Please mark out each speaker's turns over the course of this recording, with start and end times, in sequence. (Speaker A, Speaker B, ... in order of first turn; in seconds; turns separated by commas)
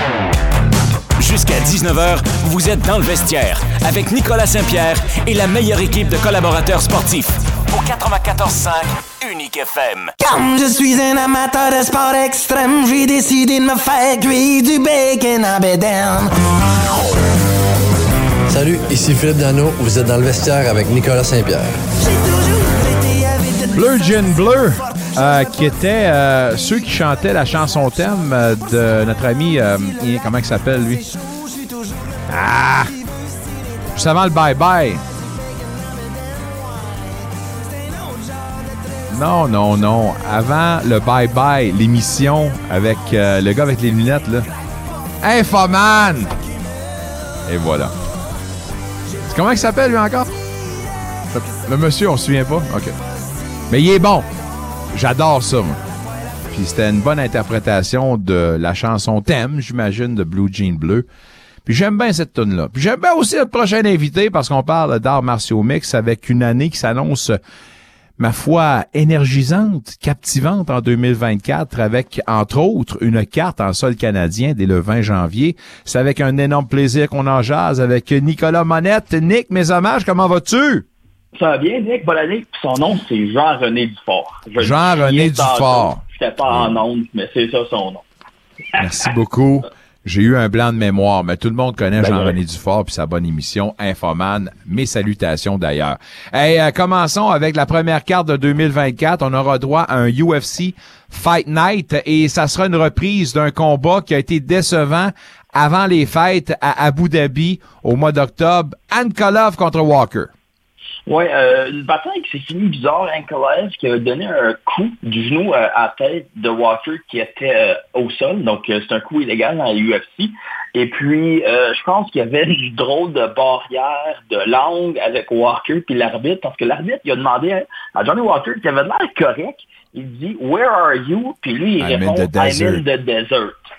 Speaker A: 1.2-10.1, Speaker B: 10.3-16.2, Speaker C: 18.5-21.7, Speaker D: 23.8-31.1, Speaker D: 32.3-32.9, Speaker D: 33.9-35.0, Speaker D: 39.1-44.5, Speaker D: 45.2-46.4, Speaker D: 47.5-47.9, Speaker D: 49.3-50.3, Speaker D: 51.3-53.0, Speaker D: 53.7-54.3, Speaker D: 54.9-55.8, Speaker D: 56.5-61.1, Speaker D: 61.7-67.4, Speaker D: 68.2-80.8, Speaker E: 81.4-88.0, Speaker D: 84.6-86.8, Speaker D: 88.8-110.3, Speaker E: 92.0-92.3, Speaker E: 111.1-133.6, Speaker D: 131.8-132.8